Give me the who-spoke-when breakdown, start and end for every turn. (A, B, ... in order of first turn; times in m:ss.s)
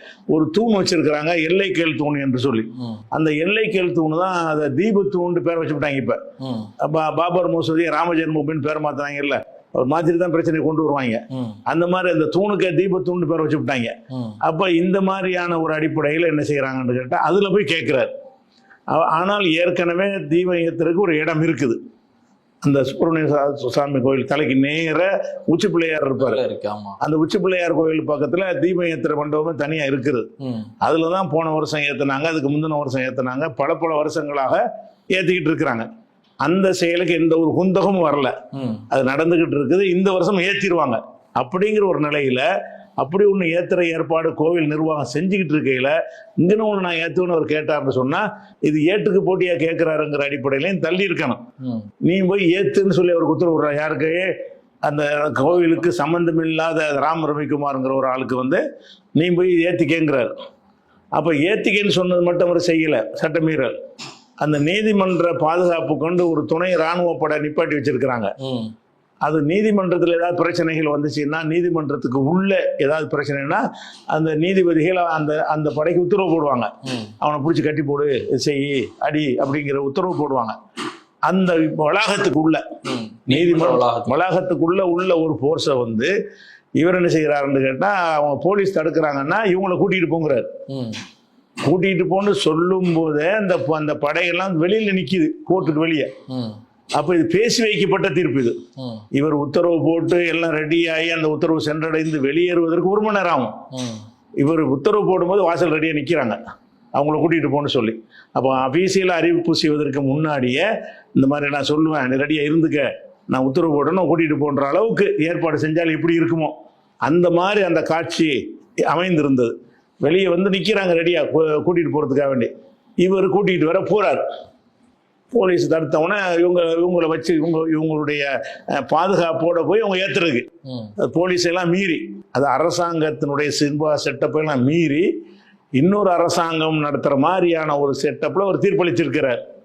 0:00.3-0:06.2 A
0:06.4-0:06.7 B
0:06.8-0:18.1 A
0:11.3-0:11.6 B
0:14.1-0:14.4 B
0:18.9-0:21.8 A
0:22.6-0:26.4 A
0:26.2-0:27.0 B
0:27.0-0:30.3 A
0:30.4-0:30.7 B
0:30.8-0:35.9 A
0:36.4-0:38.3 A
0:38.5-0:38.8 B
0:38.9-0:42.5 A
0:43.0-0:51.4 A
0:52.0-0:54.3 A
0:54.8-0:58.6 A
0:59.2-1:00.3 A
1:01.2-1:03.7 A
1:04.4-1:08.3 A
1:08.4-1:08.7 B
1:09.2-1:20.6 A
1:16.9-1:17.1 B
1:21.3-1:22.6 A
1:22.9-1:24.2 B
1:23.3-1:26.1 A
1:26.8-1:30.5 A
1:30.7-1:31.0 B
1:31.6-1:36.1 A
1:36.3-1:36.6 B
1:37.0-1:38.6 A
1:38.8-1:39.0 B
1:39.1-1:43.6 A
1:43.7-1:44.0 B
1:44.4-1:46.4 A
1:47.0-1:56.5 A
1:57.1-1:58.4 A
1:58.9-2:02.5 A
2:03.0-2:04.2 A
2:05.3-2:10.5 A
2:10.7-2:10.9 B
2:11.0-2:15.1 A
2:15.8-2:19.4 A